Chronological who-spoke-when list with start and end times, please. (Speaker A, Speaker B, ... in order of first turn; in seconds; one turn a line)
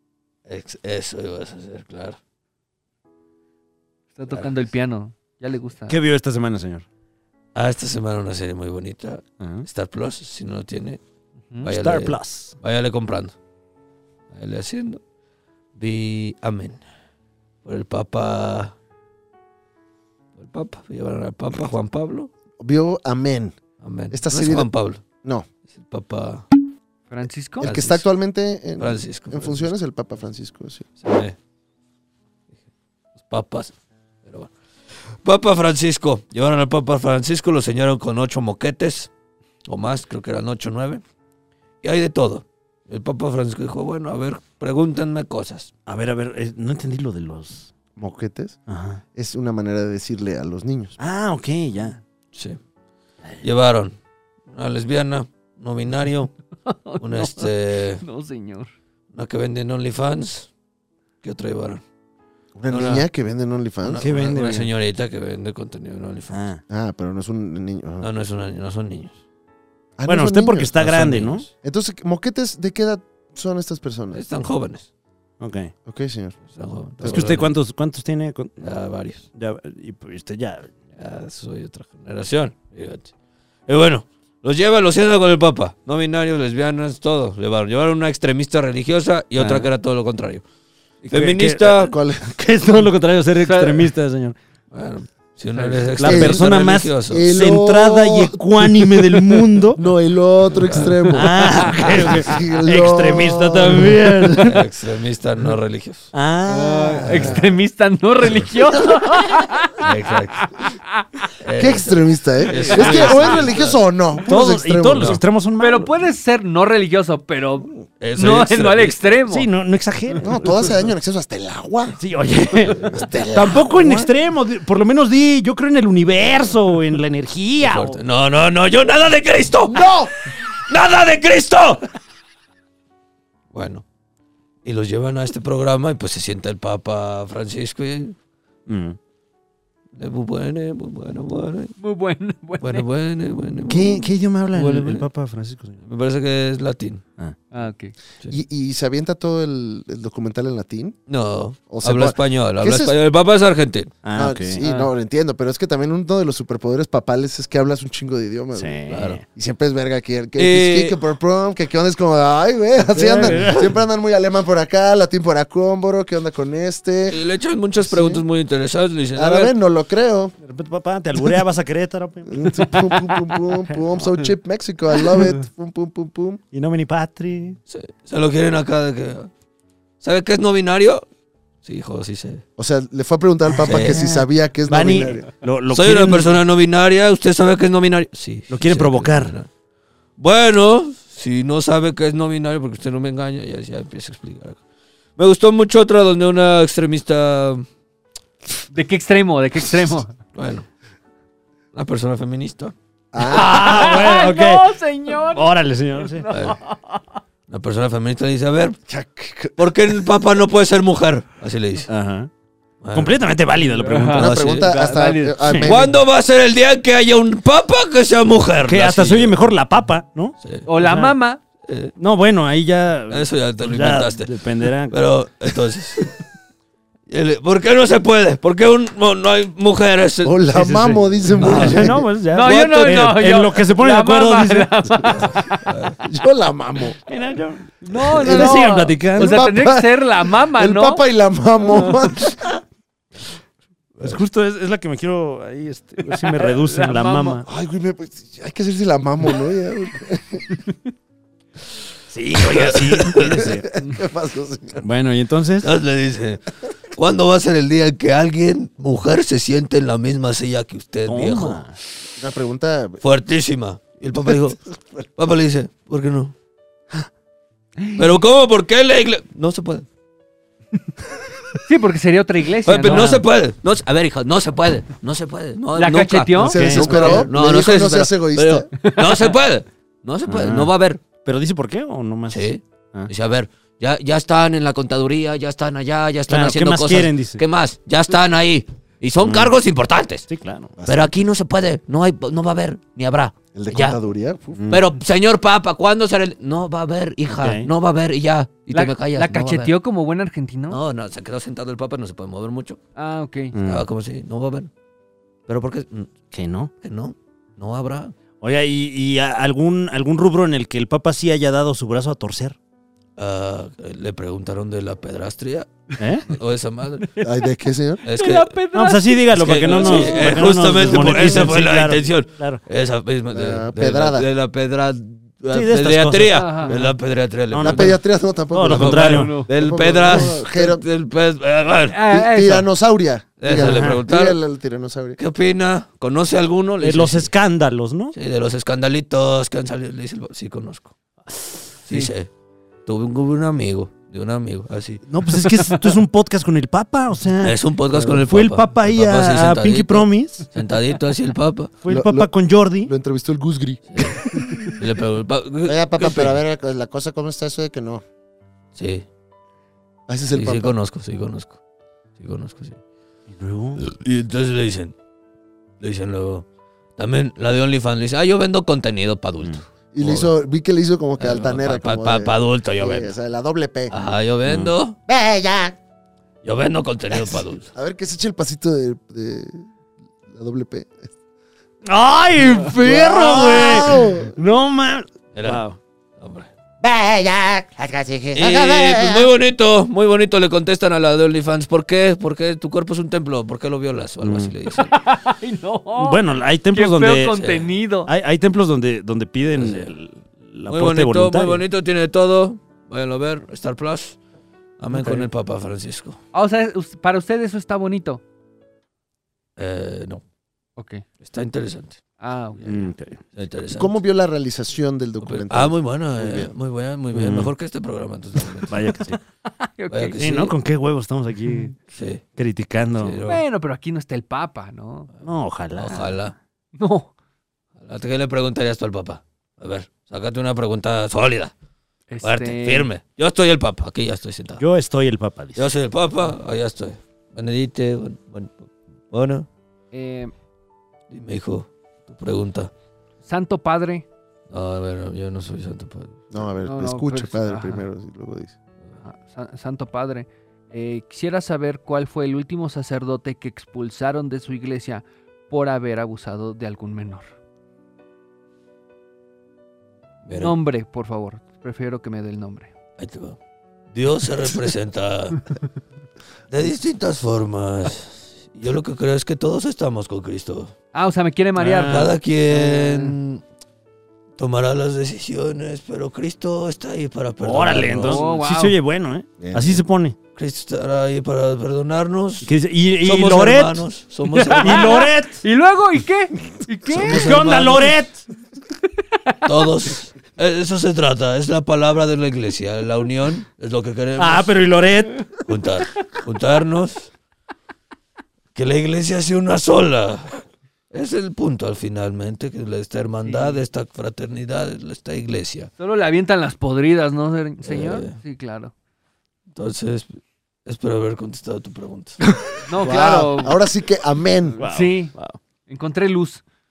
Speaker A: 0.5-2.2
Speaker B: 4.2-6.0
Speaker C: 5.9-6.8
Speaker A: 7.5-11.0
Speaker C: 9.4-9.7
Speaker A: 11.6-13.3
Speaker C: 11.7-12.6
Speaker A: 14.3-15.0
Speaker A: 15.8-16.8
Speaker A: 17.6-18.8
Speaker A: 20.4-22.3
Speaker D: 22.6-23.6
Speaker A: 23.8-25.0
Speaker D: 24.1-24.7
Speaker A: 25.7-26.5
Speaker B: 27.1-27.7
Speaker D: 27.6-30.9
Speaker A: 27.6-28.1
Speaker A: 28.8-29.7
Speaker A: 31.0-31.4
Speaker A: 33.3-34.5
Speaker A: 35.1-39.1
Speaker A: 39.7-41.0
Speaker A: 41.8-45.7
Speaker C: 45.9-47.7
Speaker D: 48.0-48.6
Speaker C: 48.7-49.0
Speaker D: 49.1-51.0
Speaker C: 51.0-52.0
Speaker A: 52.3-52.6
Speaker A: 53.4-54.0
Speaker A: 54.5-56.3
Speaker B: 56.7-58.7
Speaker A: 57.0-58.0
Speaker A: 59.1-60.5
Speaker A: 61.2-61.8
Speaker D: 62.6-64.1
Speaker A: 62.7-63.1
Speaker A: 63.8-66.4
Speaker C: 64.0-64.7
Speaker C: 66.3-66.6
Speaker D: 66.7-68.1
Speaker A: 68.0-69.2
Speaker D: 70.0-70.7
Speaker C: 70.1-71.5
Speaker A: 70.8-71.5
Speaker D: 71.6-74.2
Speaker A: 74.1-74.9
Speaker C: 75.4-75.7
Speaker D: 75.9-76.4
Speaker A: 76.5-77.5
Speaker D: 77.0-77.4
Speaker C: 77.0-78.8
Speaker A: 78.6-79.2
Speaker C: 79.3-80.7
Speaker A: 81.0-83.1
Speaker A: 83.7-90.5
Speaker C: 89.4-89.7
Speaker A: 91.0-91.9
Speaker C: 91.1-94.4
Speaker D: 91.9-92.4
Speaker B: 93.5-93.9
Speaker A: 94.7-97.3
Speaker B: 95.5-96.0
Speaker C: 95.9-99.8
Speaker D: 96.0-104.5
Speaker A: 100.5-101.2
Speaker C: 101.1-104.7
Speaker A: 101.7-102.2
Speaker A: 104.4-106.1
Speaker C: 106.1-107.4
Speaker B: 106.5-111.2
Speaker D: 106.8-107.4
Speaker A: 109.8-110.5
Speaker A: 111.4-113.8
Speaker D: 111.6-115.2
Speaker C: 112.5-113.5
Speaker B: 112.6-112.9
Speaker C: 114.2-115.9
Speaker B: 115.6-119.5
Speaker A: 118.0-119.1
Speaker C: 119.3-120.8
Speaker D: 120.2-122.0
Speaker C: 122.0-128.0
Speaker D: 122.8-124.1
Speaker A: 127.6-129.9
Speaker D: 129.7-130.1
Speaker A: 130.7-131.8
Speaker A: 133.5-133.8
Speaker A: 134.7-138.2
Speaker C: 138.7-139.0
Speaker A: 139.9-141.8
Speaker B: 141.8-142.9
Speaker A: 142.6-145.1
Speaker C: 143.7-145.8
Speaker A: 145.8-147.0
Speaker B: 147.5-147.9
Speaker D: 148.3-151.0
Speaker A: 151.1-153.9
Speaker D: 151.7-152.9
Speaker C: 154.0-154.6
Speaker D: 154.2-158.8
Speaker B: 154.6-154.9
Speaker C: 158.6-159.2
Speaker A: 158.9-159.2
Speaker D: 159.3-167.2
Speaker A: 160.4-161.0
Speaker C: 162.9-163.7
Speaker A: 167.1-169.5
Speaker D: 167.8-168.2
Speaker D: 169.2-170.3
Speaker C: 170.4-174.1
Speaker D: 172.3-176.4
Speaker C: 176.5-177.6
Speaker A: 177.7-179.3
Speaker A: 180.0-181.1
Speaker A: 181.6-182.4
Speaker D: 182.6-185.3
Speaker C: 183.5-186.4
Speaker A: 183.7-184.0
Speaker A: 185.7-189.5
Speaker C: 188.5-189.3
Speaker A: 190.2-194.6
Speaker A: 195.2-197.7
Speaker B: 198.7-200.1
Speaker A: 200.3-200.7
Speaker A: 201.7-202.8
Speaker D: 203.1-204.1
Speaker C: 203.2-206.3
Speaker B: 203.3-207.0
Speaker A: 206.3-206.6
Speaker A: 207.5-208.8
Speaker D: 208.9-209.6
Speaker A: 209.6-211.9
Speaker C: 211.9-212.3
Speaker A: 212.8-213.2
Speaker C: 212.9-214.3
Speaker B: 213.8-215.6
Speaker A: 214.2-214.8
Speaker D: 214.2-215.9
Speaker C: 215.4-215.7
Speaker A: 215.6-219.5
Speaker C: 218.6-221.1
Speaker A: 220.4-220.7
Speaker B: 220.7-221.4
Speaker A: 221.6-221.9
Speaker C: 222.0-225.0
Speaker A: 223.1-224.3
Speaker A: 224.9-226.1
Speaker A: 227.1-230.4
Speaker D: 230.2-232.1
Speaker C: 230.5-235.3
Speaker A: 231.4-231.8
Speaker B: 232.3-235.6
Speaker A: 232.5-233.0
Speaker A: 235.7-236.0
Speaker D: 236.0-237.0
Speaker C: 237.1-239.5
Speaker B: 237.8-241.0
Speaker D: 238.1-242.5
Speaker C: 244.0-247.5
Speaker B: 246.1-247.4
Speaker D: 247.4-250.6
Speaker C: 252.1-253.7
Speaker A: 252.3-253.5
Speaker D: 253.2-254.8
Speaker C: 254.8-255.7
Speaker A: 255.6-261.6
Speaker C: 261.1-261.8
Speaker D: 262.2-263.0
Speaker A: 263.0-266.4
Speaker B: 267.8-268.1
Speaker A: 268.0-269.9
Speaker B: 271.6-273.2
Speaker A: 272.6-281.0
Speaker C: 272.8-273.2
Speaker B: 275.8-277.2
Speaker D: 276.4-278.7
Speaker C: 276.5-277.3
Speaker B: 278.8-279.4
Speaker C: 280.3-280.7
Speaker C: 281.2-283.1
Speaker A: 282.3-290.3
Speaker C: 286.3-287.4
Speaker C: 289.2-289.6
Speaker C: 290.3-290.8
Speaker D: 290.8-291.1
Speaker A: 290.9-294.0
Speaker D: 293.5-294.6
Speaker C: 294.6-294.9
Speaker A: 294.7-299.7
Speaker C: 297.3-297.7
Speaker B: 298.7-300.8
Speaker A: 300.7-302.8
Speaker B: 303.0-303.5
Speaker C: 303.5-303.9
Speaker A: 303.6-304.7
Speaker A: 305.5-306.1
Speaker C: 306.3-306.7
Speaker A: 306.8-308.1
Speaker C: 308.4-312.6
Speaker A: 313.2-317.1
Speaker C: 316.0-316.3
Speaker D: 317.2-318.0
Speaker A: 318.1-318.6
Speaker B: 318.1-320.5
Speaker C: 318.7-322.6
Speaker A: 319.3-328.0
Speaker D: 320.9-321.4
Speaker D: 323.3-324.3
Speaker C: 325.5-326.9
Speaker B: 326.3-326.7
Speaker C: 327.5-328.0
Speaker D: 327.6-330.9
Speaker C: 328.5-329.4
Speaker A: 328.7-332.0
Speaker B: 329.0-329.5
Speaker B: 331.9-332.7
Speaker D: 332.1-335.2
Speaker A: 333.4-334.4
Speaker C: 333.5-334.0
Speaker A: 335.2-337.3
Speaker C: 336.8-338.1
Speaker A: 338.1-340.9
Speaker A: 341.9-342.3
Speaker A: 342.9-345.0
Speaker C: 345.1-350.5
Speaker A: 347.4-351.7
Speaker C: 351.8-352.9
Speaker D: 351.9-352.3
Speaker D: 352.8-354.4
Speaker A: 353.9-356.4
Speaker D: 355.7-358.0
Speaker A: 358.7-359.1
Speaker D: 360.1-360.8
Speaker A: 360.3-361.6
Speaker A: 362.2-362.8
Speaker C: 363.3-363.9
Speaker A: 363.8-364.9
Speaker A: 365.8-366.5
Speaker A: 367.0-370.3
Speaker D: 369.9-374.0
Speaker A: 371.2-373.1
Speaker A: 373.9-375.0
Speaker C: 374.4-374.7
Speaker D: 375.1-375.8
Speaker A: 376.4-377.7
Speaker D: 377.1-379.7
Speaker D: 380.3-381.1
Speaker C: 381.8-385.8
Speaker D: 382.7-384.4
Speaker A: 385.3-385.6
Speaker A: 386.2-386.5
Speaker D: 386.8-389.3
Speaker A: 388.3-394.9
Speaker C: 394.2-394.5
Speaker B: 394.7-396.2
Speaker C: 395.9-397.4
Speaker B: 396.7-398.1
Speaker A: 397.4-397.7
Speaker C: 398.1-401.6
Speaker A: 399.6-399.9
Speaker A: 400.7-404.2
Speaker A: 404.8-406.2
Speaker C: 404.9-405.3
Speaker B: 406.3-408.2
Speaker A: 409.6-410.2
Speaker B: 410.8-411.0
Speaker A: 411.2-412.0
Speaker B: 412.2-412.9
Speaker C: 412.6-413.2
Speaker A: 413.3-414.0
Speaker D: 413.8-416.5
Speaker A: 415.2-419.0
Speaker C: 417.1-417.5
Speaker C: 418.7-419.2
Speaker B: 419.5-420.2
Speaker A: 419.9-420.5
Speaker C: 420.2-421.7
Speaker A: 421.9-422.2
Speaker C: 422.4-423.4
Speaker A: 423.0-423.4
Speaker B: 423.3-425.1
Speaker C: 425.2-426.2
Speaker A: 425.8-426.4
Speaker B: 426.8-427.1
Speaker A: 427.8-431.5
Speaker B: 432.1-432.9
Speaker A: 432.2-434.6
Speaker C: 434.6-435.7
Speaker A: 435.6-439.5
Speaker B: 439.9-440.3
Speaker A: 441.1-442.7
Speaker B: 443.2-444.1
Speaker A: 444.5-446.2
Speaker D: 446.3-448.5
Speaker B: 446.6-447.9
Speaker B: 449.0-457.3
Speaker A: 460.2-460.5
Speaker B: 460.4-462.7
Speaker A: 463.0-463.4
Speaker A: 463.9-465.6
Speaker A: 466.5-470.7
Speaker B: 470.9-473.2
Speaker A: 471.6-473.4
Speaker A: 474.4-478.3
Speaker C: 477.4-480.2
Speaker B: 478.0-478.8
Speaker D: 479.4-479.8
Speaker A: 480.4-485.1
Speaker C: 482.4-483.9
Speaker B: 484.3-487.4
Speaker C: 484.6-485.4
Speaker A: 486.9-487.9
Speaker C: 487.0-488.2
Speaker B: 489.3-489.7
Speaker A: 489.4-494.5
Speaker C: 494.2-495.2
Speaker A: 495.4-497.1
Speaker A: 498.6-505.7
Speaker B: 503.2-503.6
Speaker B: 505.8-508.7
Speaker A: 507.6-508.2
Speaker A: 509.5-512.2
Speaker B: 512.7-513.6
Speaker D: 512.8-514.6
Speaker C: 514.5-515.4
Speaker B: 514.7-515.1
Speaker B: 515.7-516.4